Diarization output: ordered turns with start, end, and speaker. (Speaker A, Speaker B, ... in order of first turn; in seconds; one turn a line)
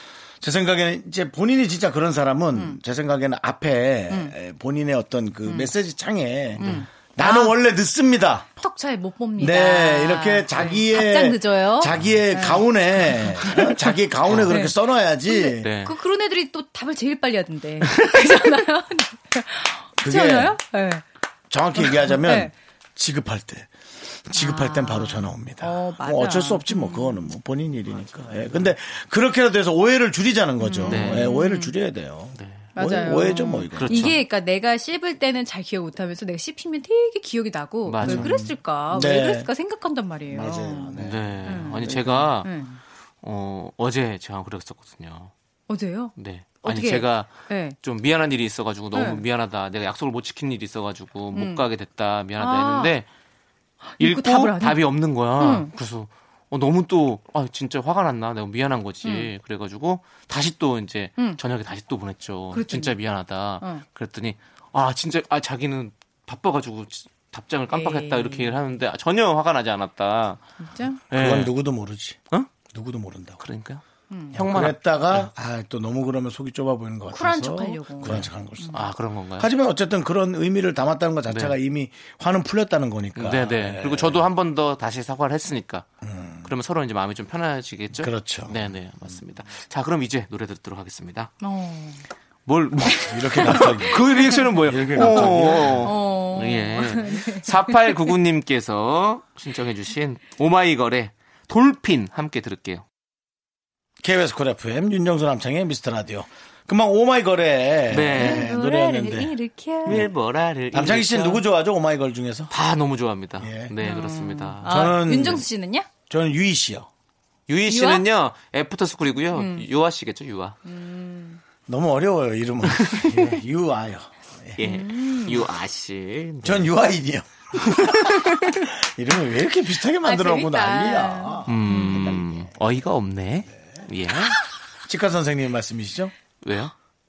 Speaker A: 0.4-8.5
Speaker B: 5.5-5.7
Speaker B: 6.6-7.5
Speaker C: 6.6-6.8
Speaker B: 8.6-14.8
Speaker A: 9.4-15.7
Speaker C: 14.3-14.5
Speaker B: 15.3-21.0
Speaker C: 15.6-15.9
Speaker C: 17.8-18.2
Speaker A: 20.0-20.6
Speaker A: 21.5-23.7
Speaker B: 21.8-22.5
Speaker A: 24.3-34.1
Speaker B: 24.3-27.3
Speaker B: 30.6-31.7
Speaker C: 30.9-31.3
Speaker C: 32.4-32.7
Speaker B: 32.8-42.8
Speaker C: 33.7-34.2
Speaker C: 37.9-38.5
Speaker A: 38.0-39.5
Speaker A: 40.3-42.3
Speaker C: 41.0-42.5
Speaker C: 43.2-45.3
Speaker B: 45.7-47.8
Speaker C: 46.2-53.1
Speaker B: 48.9-49.2
Speaker B: 51.3-51.6
Speaker B: 52.4-53.0
Speaker B: 53.9-55.7
Speaker C: 54.0-70.4
Speaker B: 59.0-59.3
Speaker B: 62.5-63.0
Speaker B: 67.7-68.6
Speaker B: 70.6-71.0
Speaker C: 71.1-71.5
Speaker A: 71.1-72.2
Speaker A: 72.7-73.4
Speaker C: 73.4-73.8
Speaker B: 74.1-74.4
Speaker C: 74.3-75.3
Speaker A: 74.3-78.8
Speaker B: 77.1-78.8
Speaker C: 78.0-79.5
Speaker A: 79.4-84.3
Speaker C: 81.3-81.5
Speaker C: 83.2-85.9
Speaker A: 86.0-86.5
Speaker C: 86.4-91.3
Speaker A: 88.0-88.6
Speaker B: 91.4-92.0
Speaker C: 92.5-102.8
Speaker A: 93.1-94.0
Speaker B: 93.4-93.8
Speaker A: 94.7-95.9
Speaker B: 95.0-98.1
Speaker A: 104.0-109.3
Speaker C: 107.9-108.5
Speaker B: 108.1-110.1
Speaker C: 109.8-111.4
Speaker A: 110.7-112.5
Speaker C: 112.5-114.9
Speaker A: 113.4-113.7
Speaker B: 113.8-115.9
Speaker A: 114.7-115.4
Speaker A: 116.1-116.9
Speaker C: 117.5-120.6
Speaker B: 117.7-118.0
Speaker B: 119.3-119.7
Speaker B: 120.7-121.4
Speaker A: 121.7-124.6
Speaker C: 122.7-123.4
Speaker C: 124.6-126.7
Speaker B: 124.6-125.5
Speaker A: 126.4-132.5
Speaker C: 127.6-128.3
Speaker B: 130.0-132.2
Speaker C: 131.5-134.4
Speaker A: 134.8-136.1
Speaker C: 136.4-136.7